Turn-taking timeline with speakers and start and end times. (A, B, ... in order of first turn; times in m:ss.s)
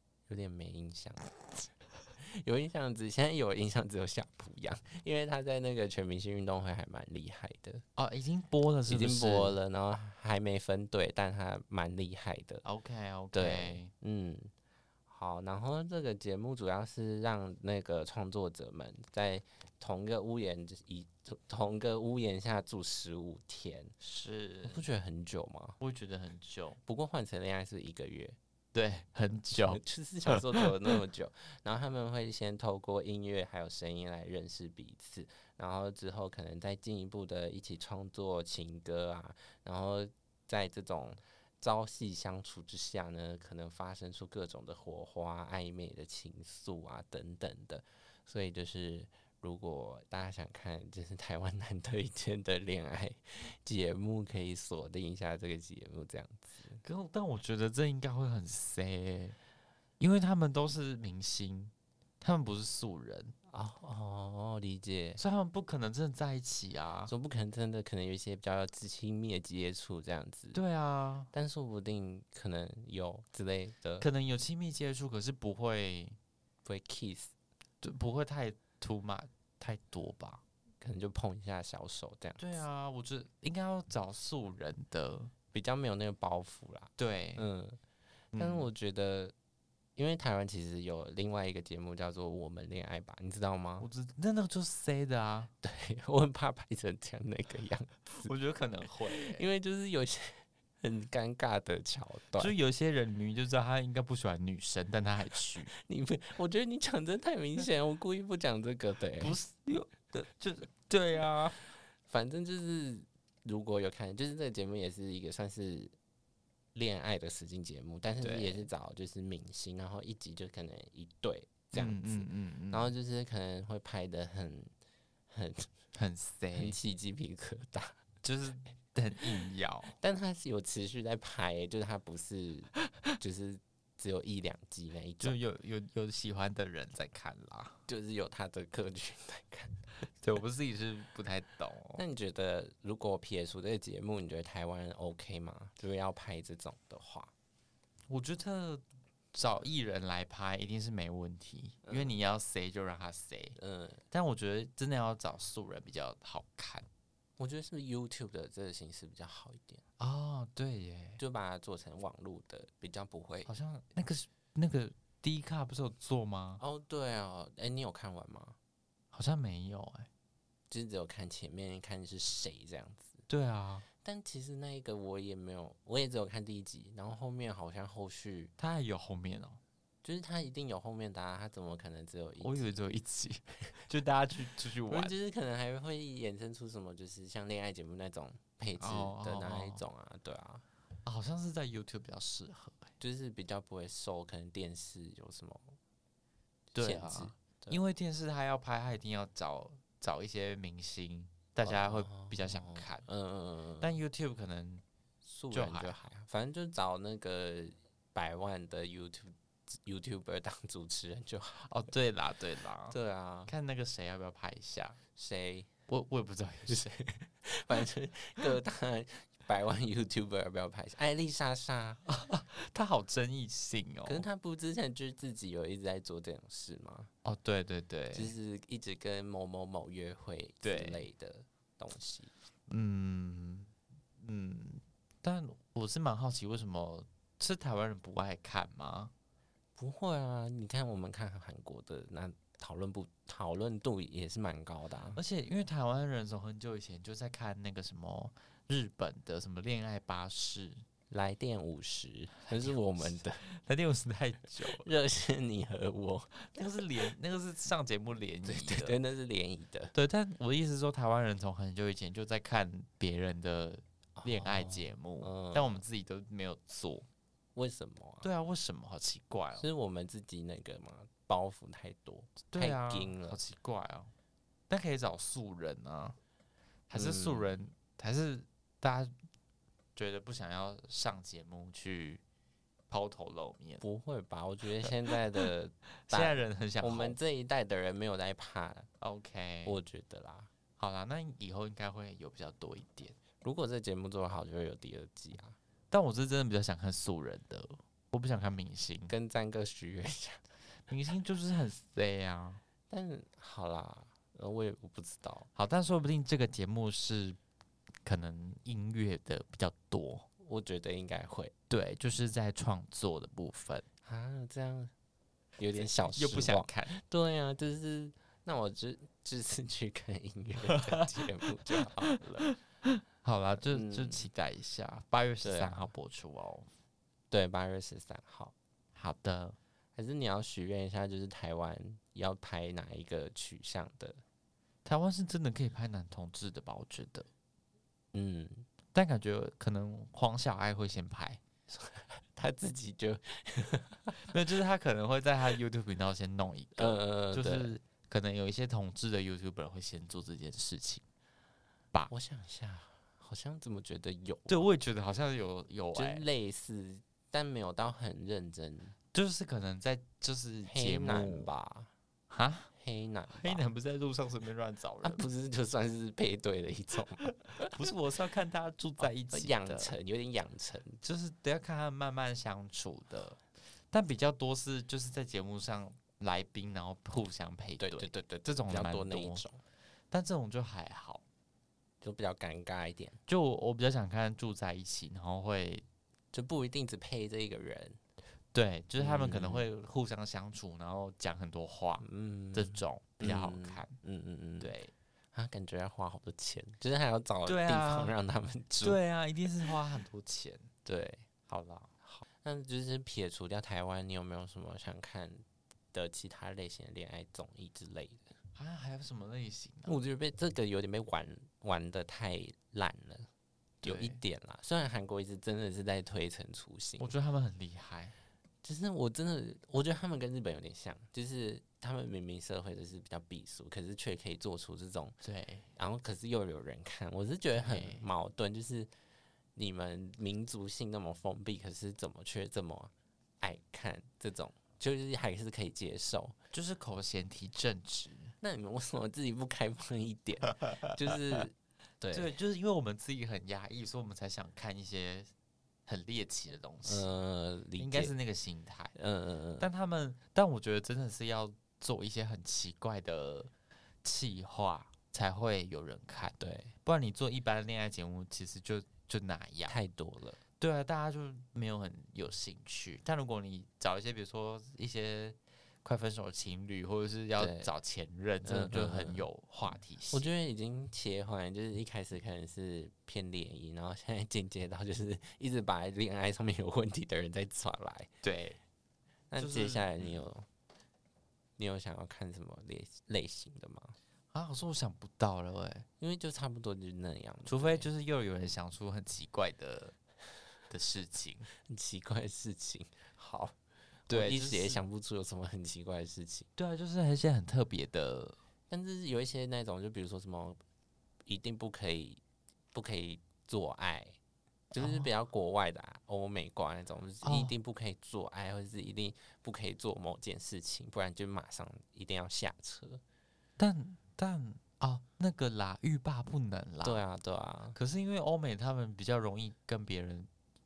0:00.3-0:07.8 A
0:08.0-0:09.5 B
0:08.9-0:12.6 A
0:12.6-0:13.9 B
0:13.3-0:14.5 A
0:15.1-0:24.0 A
0:24.0-0:24.8 B
0:24.6-0:25.8 A
0:25.8-0:26.8 B
0:26.8-0:28.4 A
0:28.7-0:30.6 B
0:29.5-0:56.8 A
0:56.8-0:59.4 B
1:00.0-1:03.3 B
1:03.5-1:05.2 A
1:05.2-1:07.1 B
1:07.1-1:10.6 A
1:10.5-1:11.3 B
1:11.3-1:14.1 A
1:14.0-1:16.2 B
1:16.6-1:17.3 A
1:17.8-1:20.4 B
1:20.8-1:22.5 A
1:22.4-1:25.3 B
1:25.5-1:27.8 A
1:27.0-1:27.4 B
1:28.3-1:28.7 B
1:28.4-1:29.3 A
1:30.0-1:33.9 A
1:33.8-1:35.5 B
1:35.6-1:38.3 A
1:38.2-1:39.4 B
1:39.0-1:42.5 A
1:42.4-1:45.7 B
1:45.7-1:49.4 A
1:49.2-1:51.6 B
1:52.1-1:55.9 A
1:56.7-2:04.7 A
1:58.2-1:58.7 B
2:01.7-2:02.9 B
2:05.3-2:05.7 A
2:05.9-2:06.8 B
2:06.5-2:08.0 A
2:08.2-2:09.9 B
2:10.0-2:15.4 A
2:15.2-2:17.8 B
2:17.9-2:19.9 A
2:20.2-2:22.0 B
2:22.0-2:27.3 A
2:28.1-2:33.6 B
2:31.8-2:32.1 A
2:33.6-2:34.0 A
2:34.1-2:36.8 B
2:37.4-2:39.8 A
2:40.0-2:41.2 B
2:41.2-2:43.5 A
2:43.4-2:46.6 B
2:46.6-2:48.6 A
2:49.1-2:50.1 B
2:50.7-2:53.2 A
2:53.3-2:53.9 B
2:54.0-2:58.5 A
2:58.6-2:59.6 B
3:00.0-3:02.7 A
3:02.4-3:05.1 B
3:04.9-3:10.6 A
3:08.8-3:09.8 B
3:11.0-3:12.9 B
3:13.0-3:15.7 A
3:16.7-3:17.8 A
3:16.7-3:23.0 B
3:21.6-3:23.9 A
3:23.8-3:24.8 B
3:25.2-3:31.7 A
3:25.5-3:25.9 B
3:31.6-3:32.9 B
3:32.9-3:33.5 A
3:33.5-3:35.0 B
3:35.1-3:35.7 A
3:35.9-3:37.0 B
3:36.7-3:42.0 A
3:42.1-3:44.2 B
3:44.0-3:47.1 A
3:47.2-3:48.3 B
3:48.1-3:52.3 A
3:50.6-3:51.0 B
3:52.7-3:59.1 B
3:59.8-4:05.2 A
4:05.2-4:10.8 B
4:11.1-4:13.4 A
4:12.5-4:14.9 B
4:14.7-4:16.4 A
4:16.3-4:19.0 B
4:18.4-4:19.9 A
4:19.9-4:27.0 B
4:24.2-4:25.8 A
4:27.5-4:28.3 A
4:28.2-4:29.7 B
4:29.6-4:33.4 A
4:32.5-4:34.1 B
4:34.7-4:36.2 B
4:36.9-4:39.1 B
4:36.9-4:37.5 A
4:40.0-4:42.2 B
4:42.9-4:43.8 B
4:43.8-4:48.9 A
4:44.8-4:45.4 B
4:46.1-4:47.2 B
4:49.0-4:49.8 B
4:49.6-4:50.5 A
4:50.8-4:53.2 B
4:53.4-4:55.6 A
4:55.9-4:59.1 B
4:59.1-5:00.5 A
5:00.9-5:02.6 B
5:02.9-5:05.5 A
5:05.6-5:07.4 B
5:08.0-5:10.2 B
5:10.4-5:11.5 A
5:11.7-5:13.8 B
5:14.0-5:14.9 A
5:15.6-5:22.5 A
5:15.7-5:16.9 B
5:20.7-5:26.7 B
5:23.6-5:24.3 A
5:25.4-5:25.9 A
5:27.3-5:28.5 A
5:28.9-5:29.6 B
5:30.0-5:34.2 A
5:34.8-5:37.3 B
5:38.1-5:38.7 A
5:38.9-5:41.4 B
5:41.7-5:44.3 A
5:44.3-5:51.0 B
5:46.8-5:47.7 A
5:52.1-5:54.6 A
5:54.5-5:56.2 B
5:55.9-5:58.9 A
5:59.1-6:01.5 B
6:00.6-6:01.9 A
6:02.3-6:02.7 B
6:02.7-6:03.6 A
6:03.3-6:05.2 B
6:05.0-6:07.8 A
6:07.6-6:09.9 B
6:09.0-6:11.0 A
6:11.0-6:19.4 B
6:17.8-6:19.6 A
6:20.1-6:21.2 B
6:22.0-6:23.2 A
6:23.3-6:25.8 B
6:26.3-6:28.0 A
6:28.5-6:34.0 B
6:29.0-6:29.6 A
6:32.0-6:34.7 A
6:34.6-6:34.9 B
6:35.3-6:39.0 A
6:37.4-6:38.2 B
6:38.8-6:40.7 B
6:40.8-6:41.3 A
6:41.5-6:41.9 B
6:42.0-6:48.3 A
6:48.5-6:50.0 B
6:49.8-6:53.3 A
6:53.8-6:54.2 B
6:53.8-6:57.1 A
6:57.0-6:58.1 B
6:58.6-7:05.2 A
7:05.2-7:05.7 B
7:05.7-7:08.9 A
7:07.5-7:08.0 B
7:09.6-7:16.4 A
7:16.5-7:18.3 B
7:18.4-7:22.3 A
7:22.1-7:25.3 B
7:25.9-7:27.1 B
7:26.8-7:28.1 A
7:27.8-7:28.9 B
7:28.9-7:29.7 A
7:29.6-7:33.5 B
7:34.0-7:39.8 B
7:36.4-7:36.7 A
7:39.7-7:40.4 A
7:40.6-7:50.3 B
7:47.4-7:47.7 A
7:48.4-7:49.2 A
7:50.1-7:58.1 A
7:58.2-7:58.6 B
7:59.3-8:00.4 A
7:59.4-8:00.2 B
8:01.6-8:03.9 A
8:04.3-8:05.9 B
8:06.0-8:07.9 A
8:07.4-8:09.9 B
8:10.7-8:11.5 B
8:11.7-8:13.5 A
8:14.1-8:16.5 A
8:14.1-8:14.8 B
8:16.6-8:18.4 B
8:18.7-8:20.6 A
8:21.2-8:22.2 A
8:22.7-8:24.2 A
8:24.7-8:25.1 B
8:24.7-8:33.0 A
8:27.2-8:27.5 B
8:33.6-8:37.0 B
8:36.8-8:37.8 A
8:37.7-8:40.3 B